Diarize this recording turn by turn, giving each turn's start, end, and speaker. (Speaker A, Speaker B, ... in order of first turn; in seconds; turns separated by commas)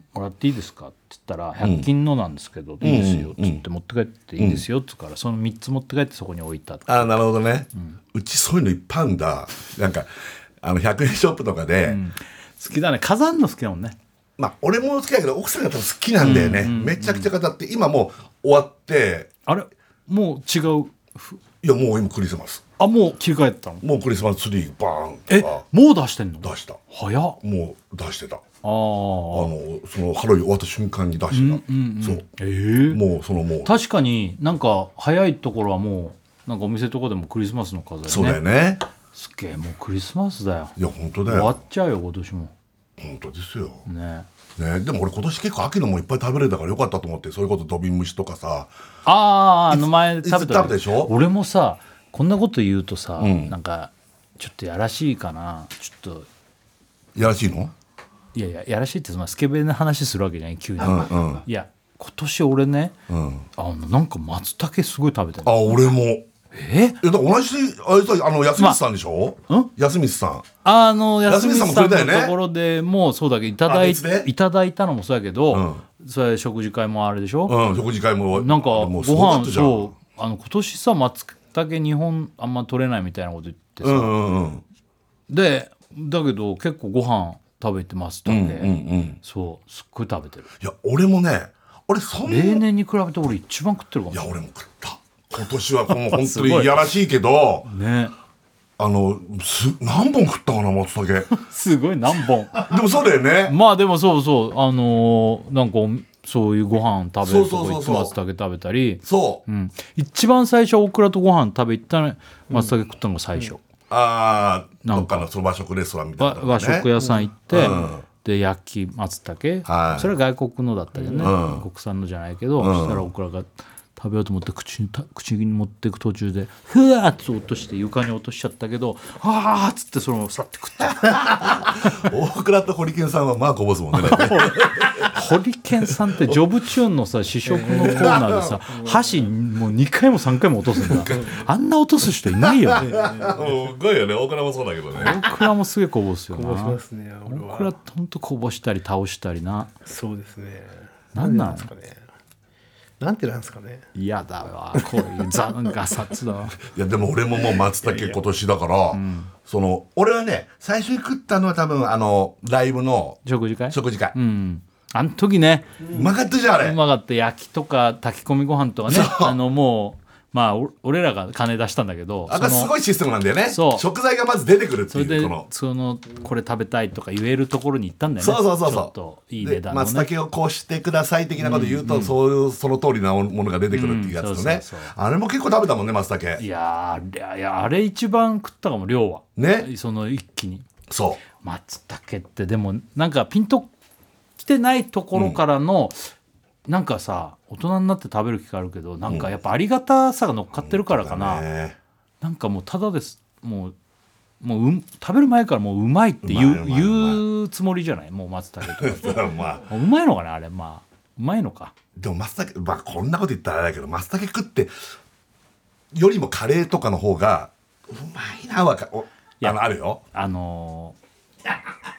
Speaker A: 0.1-7.2, Speaker B: 1.6-1.9, Speaker B: 2.8-3.6, Speaker B: 4.4-4.6, Speaker B: 6.9-10.1, Speaker B: 10.6-12.0, Speaker A: 11.9-14.0, Speaker B: 14.4-19.3, Speaker A: 16.2-17.3, Speaker A: 19.5-21.4, Speaker B: 21.6-22.6, Speaker A: 22.8-23.8, Speaker B: 23.8-25.6, Speaker A: 25.3-27.4, Speaker B: 26.4-26.8, Speaker B: 27.4-28.4, Speaker A: 28.6-29.5, Speaker B: 29.3-32.2, Speaker A: 31.3-33.0, Speaker B: 32.9-33.7, Speaker A: 33.6-38.4, Speaker B: 38.1-38.8, Speaker A: 39.1-42.5, Speaker B: 40.8-41.5, Speaker B: 43.0-43.9, Speaker A: 43.9-44.3, Speaker B: 44.6-48.7, Speaker A: 49.1-56.3, Speaker B: 49.7-51.1, Speaker B: 53.2-53.5, Speaker B: 57.1-57.7, Speaker A: 58.3-63.0, Speaker B: 60.8-61.4, Speaker B: 63.1-63.5, Speaker A: 63.6-65.7, Speaker B: 65.4-66.2, Speaker A: 66.5-67.0, Speaker B: 67.0-70.5, Speaker A: 70.6-77.6, Speaker B: 71.3-72.4, Speaker B: 73.7-74.3, Speaker B: 75.5-75.8, Speaker B: 77.5-79.9, Speaker A: 78.3-84.2, Speaker B: 83.8-84.6, Speaker A: 85.3-90.5, Speaker B: 88.3-89.2, Speaker B: 90.6-92.6, Speaker A: 92.2-94.4, Speaker B: 94.1-97.7, Speaker A: 95.9-96.9, Speaker A: 97.7-98.1, Speaker B: 98.8-101.3, Speaker A: 101.3-102.7, Speaker B: 102.6-103.6, Speaker A: 103.5-113.6, Speaker B: 107.2-108.1, Speaker B: 109.0-109.4, Speaker B: 113.9-116.9, Speaker A: 114.8-115.3, Speaker A: 116.2-132.1, Speaker B: 117.5-118.0, Speaker B: 119.7-120.1, Speaker C: 121.0-121.3, Speaker B: 121.2-121.7, Speaker B: 122.6-123.1, Speaker B: 131.0-135.2, Speaker A: 133.9-142.9, Speaker B: 135.9-136.4, Speaker C: 137.5-138.1, Speaker B: 137.9-138.6, Speaker C: 138.7-139.3, Speaker B: 140.8-141.4, Speaker C: 141.1-141.4, Speaker B: 142.3-145.2, Speaker C: 142.8-143.6, Speaker A: 144.9-149.7, Speaker C: 146.3-147.7, Speaker C: 149.9-152.0, Speaker A: 151.2-151.7, Speaker C: 153.0-153.8, Speaker A: 153.9-156.6, Speaker C: 154.8-155.2, Speaker B: 156.6-164.2, Speaker A: 158.9-159.3, Speaker A: 163.2-166.0, Speaker B: 165.9-166.8, Speaker A: 166.6-172.7, Speaker B: 168.9-169.4, Speaker B: 172.3-175.4, Speaker A: 173.5-173.9, Speaker A: 174.9-180.1, Speaker B: 178.2-186.4, Speaker A: 181.4-182.1, Speaker A: 183.7-184.9, Speaker A: 186.4-190.7, Speaker B: 189.4-189.7, Speaker B: 190.9-191.2, Speaker A: 191.4-193.7, Speaker A: 194.4-196.1, Speaker A: 196.7-201.4, Speaker B: 200.5-201.8, Speaker A: 202.2-203.8, Speaker A: 204.4-211.7, Speaker B: 206.2-207.2, Speaker B: 208.7-209.7, Speaker B: 212.0-214.7, Speaker B: 215.9-220.0, Speaker A: 220.1-221.0